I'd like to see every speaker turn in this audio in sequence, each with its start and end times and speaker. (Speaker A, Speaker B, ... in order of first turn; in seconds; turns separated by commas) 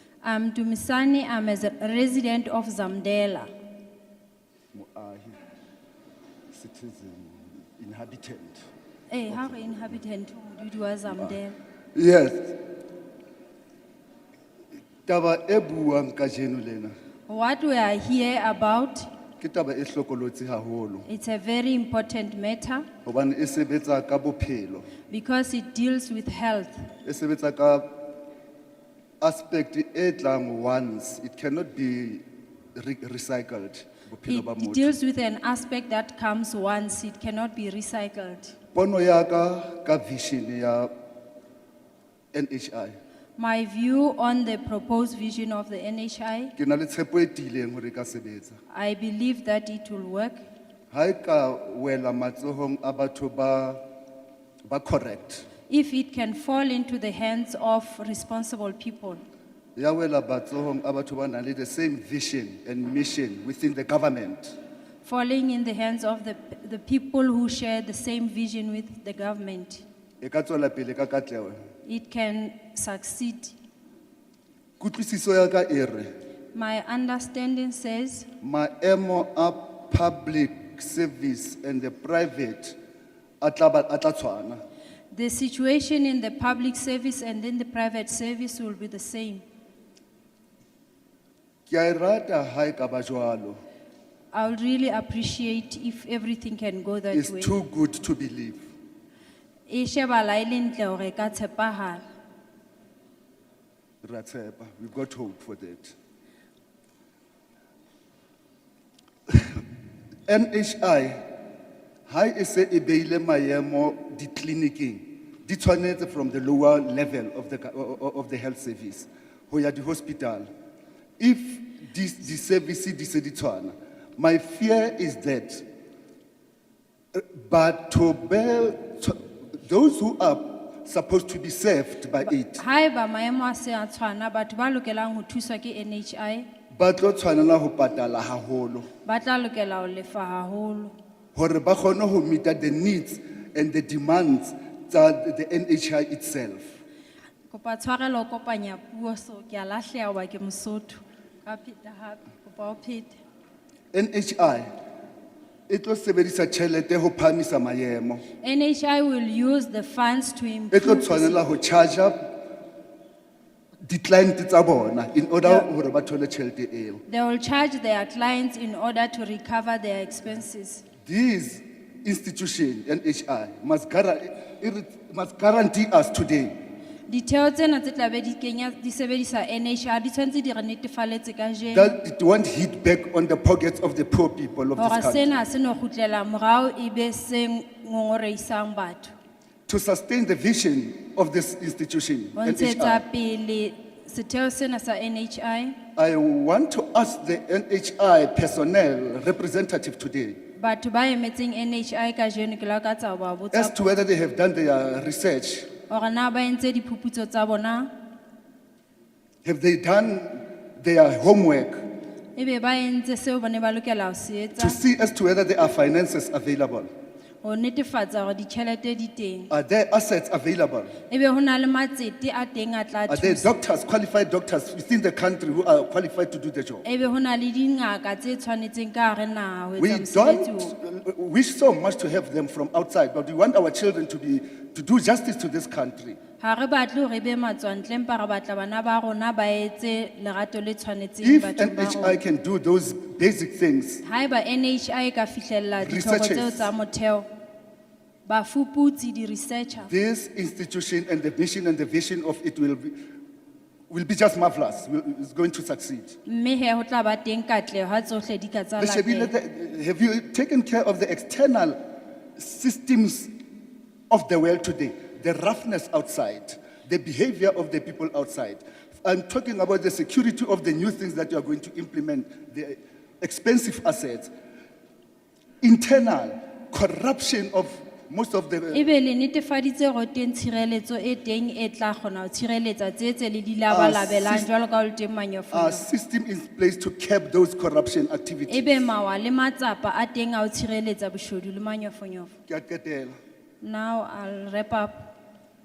Speaker A: 0.2-3.5, Speaker B: 4.7-5.4, Speaker B: 6.5-8.6, Speaker A: 9.1-11.6, Speaker B: 9.3-10.0, Speaker B: 11.9-12.6, Speaker B: 15.1-16.9, Speaker A: 17.3-19.1, Speaker B: 19.4-21.1, Speaker A: 21.1-22.9, Speaker B: 23.1-24.9, Speaker A: 25.1-26.9, Speaker B: 27.0-28.0, Speaker B: 29.2-34.9, Speaker A: 34.3-38.5, Speaker B: 38.7-40.9, Speaker B: 42.3-43.0, Speaker A: 43.4-46.5, Speaker B: 46.6-48.6, Speaker A: 48.7-50.4, Speaker B: 50.9-53.8, Speaker B: 54.7-55.5, Speaker A: 55.7-59.2, Speaker B: 59.8-64.5, Speaker A: 65.0-69.8, Speaker B: 70.2-71.6, Speaker A: 71.9-73.5, Speaker B: 74.8-76.1, Speaker A: 76.5-78.3, Speaker B: 78.4-82.8, Speaker B: 83.4-84.6, Speaker A: 85.1-89.4, Speaker B: 91.7-93.6, Speaker A: 94.3-97.6, Speaker B: 97.1-98.6, Speaker A: 99.7-102.0, Speaker B: 104.0-106.0, Speaker B: 109.3-109.6, Speaker B: 110.3-111.2, Speaker B: 112.1-120.5, Speaker B: 121.2-125.6, Speaker B: 127.2-132.6, Speaker A: 132.5-136.5, Speaker B: 136.8-138.9, Speaker A: 139.1-140.9, Speaker B: 141.3-146.8, Speaker A: 147.5-153.2, Speaker B: 153.9-154.7, Speaker B: 155.7-158.2, Speaker A: 158.4-161.4, Speaker B: 160.7-162.5, Speaker B: 163.9-167.0, Speaker A: 167.1-170.8, Speaker B: 171.0-176.5, Speaker A: 177.1-181.9, Speaker B: 181.7-185.3, Speaker A: 184.8-189.1, Speaker B: 189.7-193.0, Speaker A: 192.4-195.8, Speaker B: 196.0-200.4, Speaker A: 200.6-203.8, Speaker B: 203.5-205.7, Speaker A: 205.9-207.9, Speaker B: 209.4-211.8, Speaker A: 212.4-214.8, Speaker B: 214.6-216.9, Speaker A: 217.4-219.5, Speaker B: 219.5-221.0, Speaker A: 221.1-223.5, Speaker B: 223.1-226.8, Speaker A: 226.8-230.8, Speaker B: 229.8-236.2, Speaker A: 236.4-242.2, Speaker B: 241.2-244.0, Speaker A: 244.0-247.3, Speaker B: 245.8-246.7, Speaker A: 248.3-249.9, Speaker B: 249.9-253.0, Speaker B: 253.9-256.2, Speaker A: 256.3-259.3, Speaker B: 258.8-261.8, Speaker B: 262.4-263.3, Speaker B: 264.1-274.3, Speaker B: 275.6-278.9, Speaker A: 278.7-285.8, Speaker B: 283.7-284.5, Speaker B: 285.5-288.9, Speaker A: 288.5-292.3, Speaker B: 292.5-293.1, Speaker A: 293.6-295.1